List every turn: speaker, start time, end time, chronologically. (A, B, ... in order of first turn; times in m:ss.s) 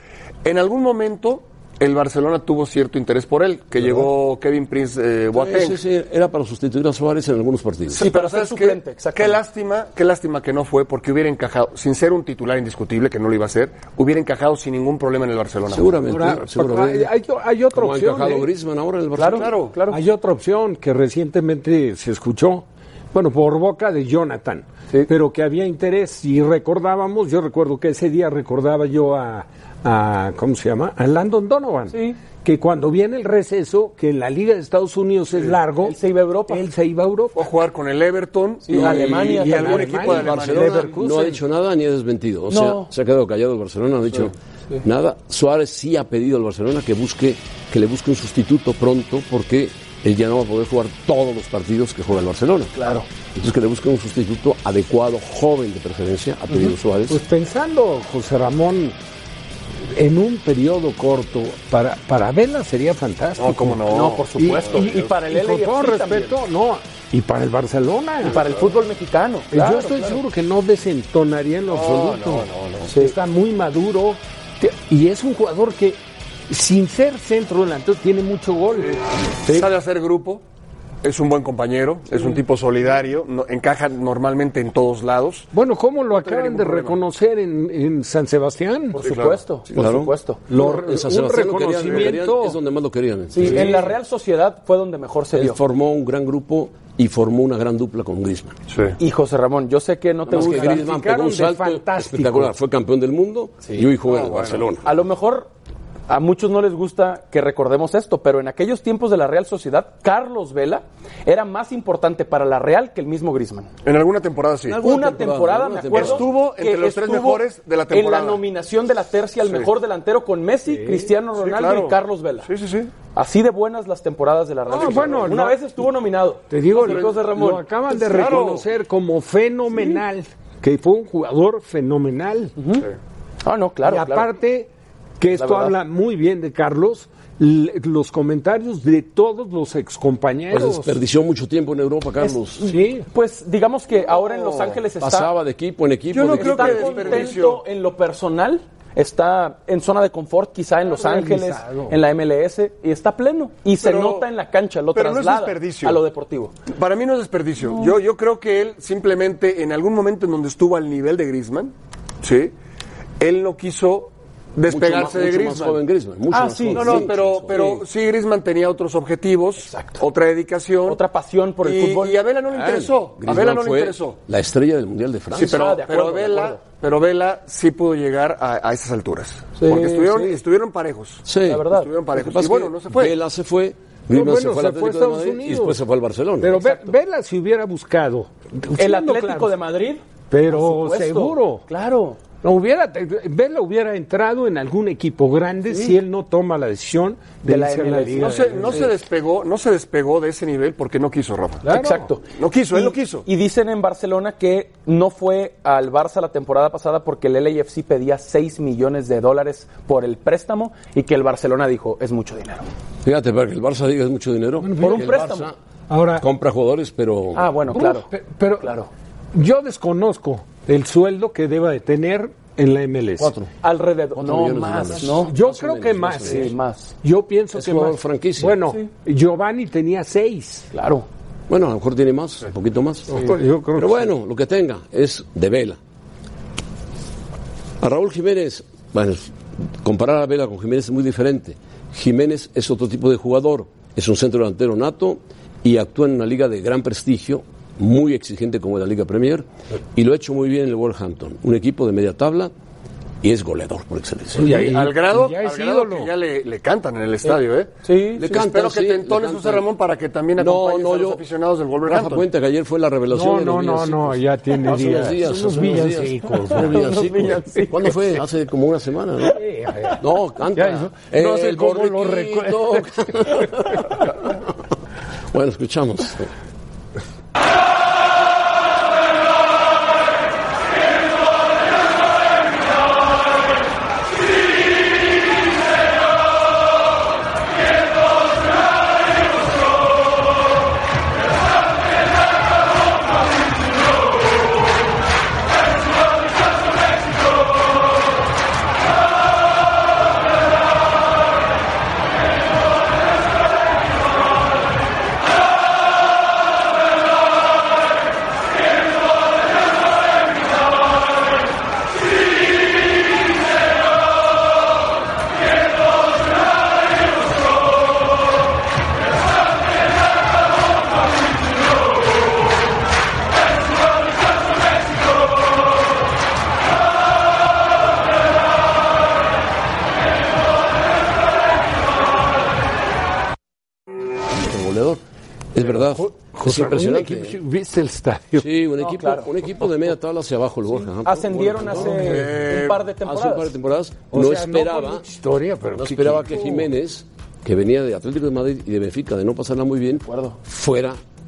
0:00.4-0:05.8 A
0:05.3-0:08.0 B
0:07.9-0:16.1 A
0:08.0-0:09.4 C
0:15.7-0:17.1 B
0:16.1-0:18.5 D
0:17.7-0:19.6 B
0:19.1-0:20.0 C
0:19.4-0:19.7 A
0:19.9-0:36.0 D
0:31.9-0:32.2 C
0:35.8-0:36.6 C
0:36.5-0:37.4 D
0:37.3-0:40.9 A
0:38.6-0:41.4 C
0:38.7-0:39.4 B
0:39.3-0:40.4 D
0:40.0-0:52.7 B
0:42.5-0:42.9 C
0:52.7-0:53.0 C
0:53.4-0:57.2 B
0:56.5-0:56.7 C
0:57.1-0:59.0 D
0:59.8-1:03.8 D
1:03.4-1:05.1 A
1:03.9-1:06.4 C
1:04.4-1:08.5 D
1:08.2-1:10.2 C
1:09.5-1:18.9 D
1:11.7-1:12.9 A
1:12.8-1:13.2 C
1:18.8-1:20.4 A
1:21.0-1:25.5 A
1:25.5-1:29.0 D
1:26.1-1:27.0 A
1:28.9-1:30.4 C
1:29.0-1:29.4 A
1:29.7-1:33.8 B
1:30.5-1:32.6 D
1:31.8-1:32.1 A
1:33.3-1:35.6 C
1:33.5-1:33.8 D
1:35.3-1:38.5 B
1:38.7-1:39.0 A
1:39.0-1:40.9 C
1:40.3-1:44.8 B
1:40.3-1:42.5 D
1:44.0-1:44.7 A
1:44.8-1:45.5 C
1:46.1-1:53.7 C
1:53.8-1:54.8 A
1:54.7-1:56.3 B
1:54.8-2:02.5 C
1:55.9-1:58.4 A
1:59.4-1:59.7 A
2:00.6-2:01.1 D
2:01.4-2:02.9 A
2:03.1-2:08.5 C
2:04.7-2:05.6 D
2:04.7-2:05.2 A
2:06.5-2:12.5 D
2:06.8-2:07.1 A
2:08.1-2:08.7 A
2:09.7-2:10.0 C
2:12.6-2:12.8 C
2:13.4-2:14.3 C
2:13.8-2:21.0 D
2:15.3-2:15.8 C
2:20.5-2:22.7 B
2:22.2-2:25.3 C
2:22.6-2:23.1 D
2:24.0-2:24.8 A
2:25.0-2:27.3 B
2:26.1-2:27.6 A
2:26.3-2:36.5 C
2:30.8-2:32.0 D
2:33.8-2:34.2 A
2:34.9-2:36.0 A
2:36.7-2:42.5 A
2:37.7-2:37.9 C
2:43.2-2:45.8 A
2:44.7-2:47.8 B
2:46.3-2:47.1 C
2:46.7-2:51.0 A
2:49.6-2:50.0 C
2:50.8-2:52.2 C
2:51.6-2:54.2 A
2:52.5-2:55.6 B
2:55.3-3:03.2 A
2:55.3-2:56.6 C
2:59.6-3:00.3 C
3:01.2-3:06.6 B
3:01.4-3:01.9 C
3:04.1-3:05.8 D
3:06.4-3:09.6 D
3:06.5-3:06.9 C
3:08.8-3:12.2 C
3:10.3-3:11.6 D
3:12.4-3:18.8 D
3:17.4-3:18.9 C
3:18.2-3:21.6 A
3:21.6-3:22.1 D
3:21.7-3:32.7 C
3:22.3-3:23.2 A
3:33.0-3:35.6 B
3:34.6-3:35.2 D
3:34.8-3:35.5 C
3:35.9-3:36.2 D
3:36.2-3:37.5 B
3:37.3-3:38.1 C
3:37.7-3:38.7 D
3:38.6-3:38.9 C
3:39.3-3:43.3 D
3:43.2-3:43.5 B
3:43.6-3:45.3 C
3:44.2-3:46.5 B
3:45.0-3:50.7 D
3:46.2-3:46.9 C
3:47.5-3:48.6 B
3:50.7-3:51.1 C
3:51.5-3:53.2 B
3:53.1-3:54.1 D
3:53.8-3:55.8 B
3:57.8-4:12.5 B
4:13.2-4:14.6 B
4:14.3-4:16.1 D
4:14.4-4:17.8 A
4:17.2-4:18.4 C
4:18.2-4:19.7 B
4:18.3-4:22.3 A
4:20.4-4:21.2 B
4:21.8-4:29.4 B
4:23.1-4:27.0 D
4:26.5-4:28.2 C
4:29.3-4:33.4 D
4:30.0-4:34.2 B
4:35.3-4:36.3 B
5:34.4-5:35.0 B
5:35.5-5:37.4 B
5:35.6-5:38.5 D
5:38.3-5:42.3 B
5:38.8-5:39.3 C
5:41.0-5:43.6 C
5:41.7-5:42.2 D
5:41.8-5:42.8 A
5:43.0-5:45.0 B
5:44.1-5:46.7 D
5:45.8-5:51.0 B
5:50.0-5:50.4 C